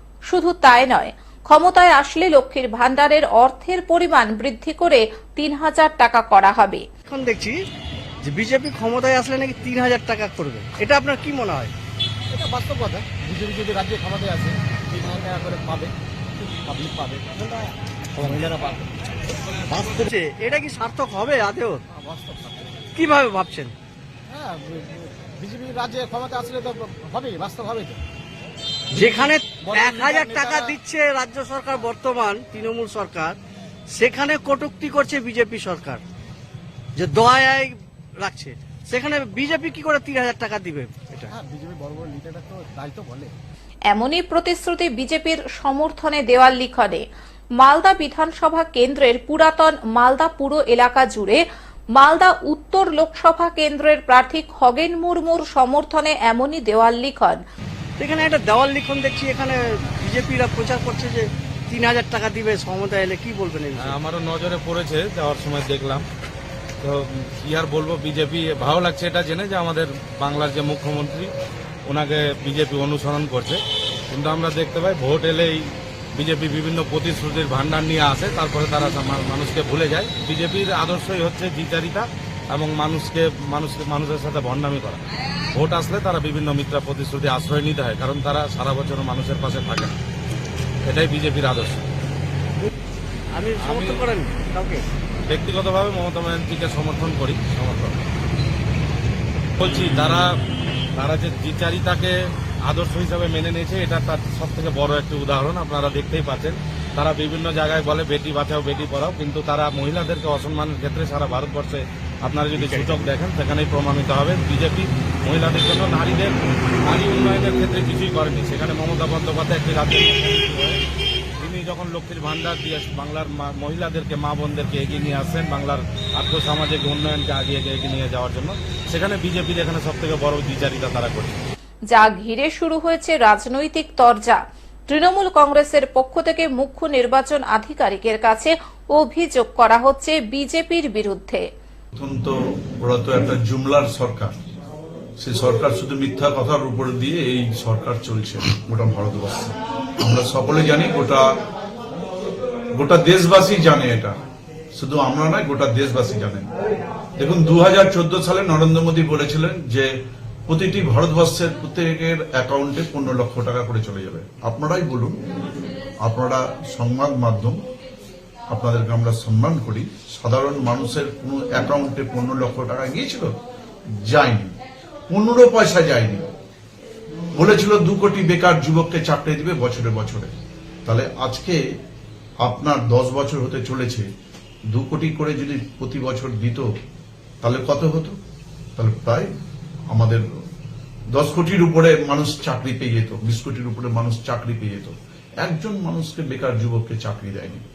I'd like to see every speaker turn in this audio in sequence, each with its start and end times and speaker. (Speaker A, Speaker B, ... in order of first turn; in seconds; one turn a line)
Speaker A: 0.3-6.8
Speaker B: 7.1-7.5
Speaker B: 8.2-11.7
Speaker C: 12.3-18.9
Speaker C: 19.7-20.0
Speaker B: 19.9-21.8
Speaker C: 21.9-22.9
Speaker B: 22.9-23.7
Speaker C: 24.3-28.0
Speaker B: 28.9-33.4
Speaker C: 29.0-30.8
Speaker B: 33.9-36.0
Speaker B: 37.0-41.3
Speaker C: 41.3-43.3
Speaker A: 43.9-47.0
Speaker A: 47.6-51.4
Speaker A: 52.0-57.4
Speaker B: 58.0-64.0
Speaker D: 63.8-66.1
Speaker D: 66.8-71.3
Speaker D: 71.9-85.0
Speaker D: 85.5-90.0
Speaker D: 90.9-91.8
Speaker B: 93.3-94.8
Speaker D: 93.6-94.1
Speaker D: 95.3-98.0
Speaker D: 99.6-100.3
Speaker D: 101.0-102.1
Speaker D: 102.7-120.8
Speaker B: 112.6-113.0
Speaker D: 121.4-131.4
Speaker A: 131.9-141.5
Speaker E: 141.9-144.3
Speaker E: 145.2-151.3
Speaker E: 152.8-154.2
Speaker E: 154.8-156.5
Speaker E: 157.2-159.9
Speaker E: 160.5-165.2
Speaker E: 166.0-167.6
Speaker E: 168.5-173.3
Speaker E: 174.0-174.6
Speaker E: 175.1-176.3
Speaker E: 177.4-180.3
Speaker E: 180.8-181.6
Speaker E: 182.4-184.1
Speaker E: 184.7-186.7
Speaker E: 187.4-188.2
Speaker E: 188.8-189.3
Speaker E: 189.9-190.2
Speaker E: 191.1-197.7